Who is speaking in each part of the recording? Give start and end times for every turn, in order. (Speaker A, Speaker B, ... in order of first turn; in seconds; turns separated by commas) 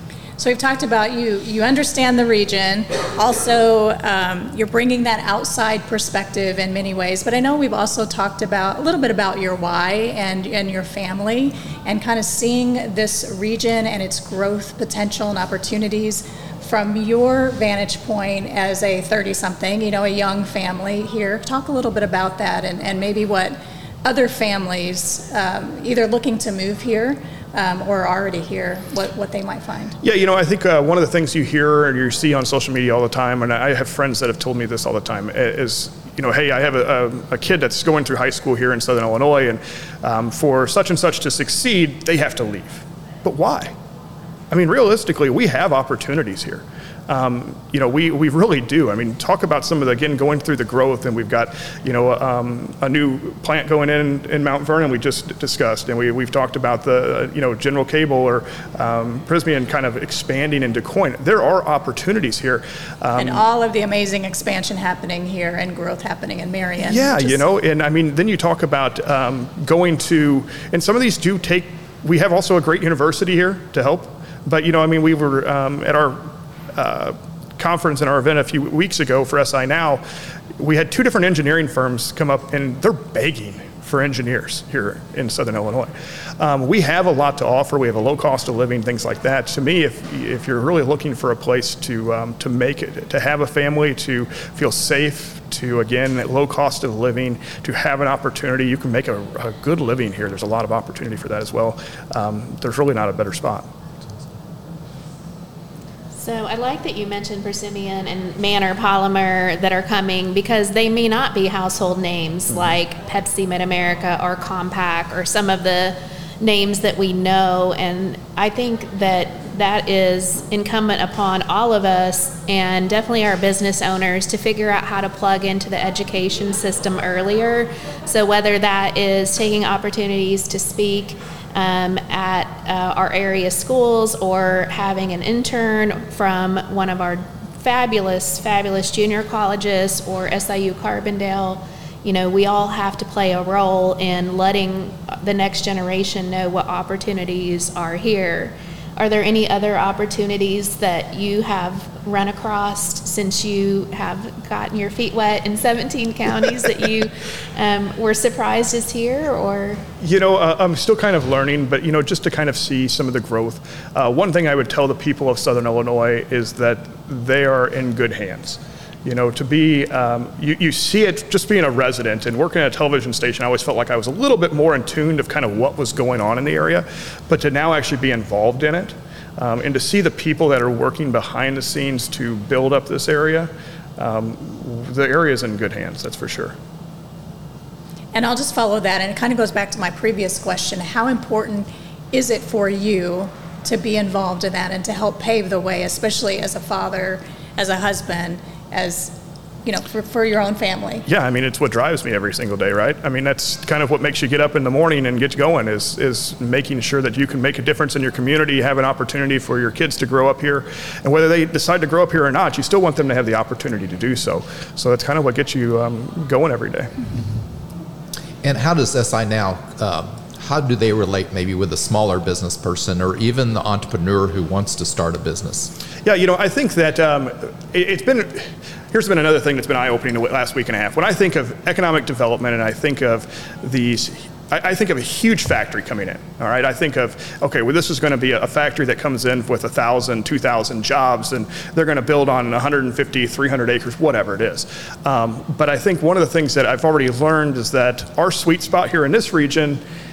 Speaker A: 0.4-29.9, Speaker B: 30.0-43.7, Speaker B: 44.5-63.5, Speaker A: 63.1-67.4, Speaker B: 66.8-80.0, Speaker B: 80.6-103.7, Speaker C: 106.1-159.8, Speaker B: 160.0-186.5, Speaker A: 188.1-199.1, Speaker A: 199.6-201.0, Speaker B: 201.1-216.9, Speaker D: 218.4-225.7, Speaker B: 226.0-249.8